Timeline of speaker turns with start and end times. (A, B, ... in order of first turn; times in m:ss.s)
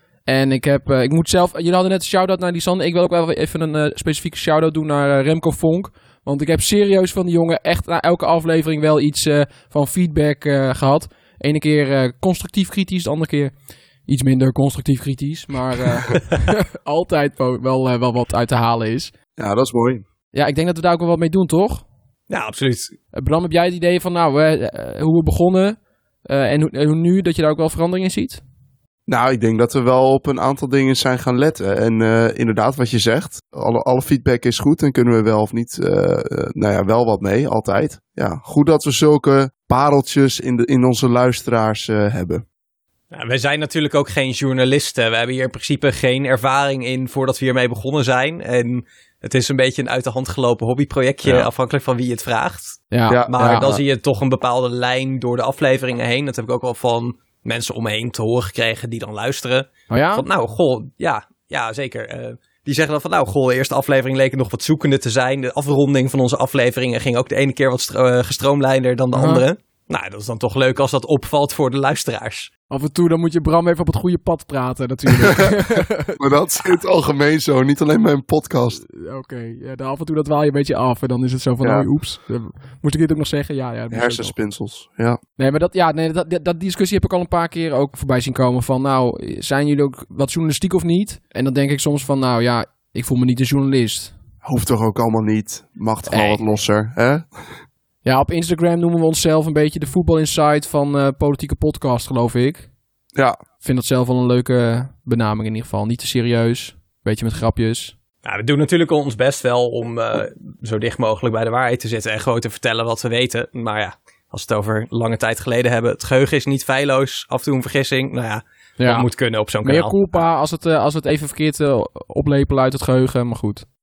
0:00.2-0:13.5 A
0:14.0-0:19.1 A
0:19.4-0:20.0 B
0:20.3-0:21.8 A
0:22.3-0:22.9 C
0:23.1-0:28.4 A
0:29.1-0:42.4 B
0:43.1-1:12.5 C
0:52.9-0:53.8 A
0:59.9-1:00.2 A
1:09.1-1:09.4 A
1:12.7-1:16.7 A
1:15.1-1:18.8 B
1:18.7-1:24.3 A
1:21.6-1:21.9 B
1:23.9-1:25.2 B
1:25.4-1:34.1 A
1:34.4-1:37.3 B
1:36.1-1:36.4 A
1:38.0-1:42.7 A
1:43.6-1:47.9 A
1:48.2-2:00.0 C
1:58.8-1:59.1 A
1:59.6-2:03.6 A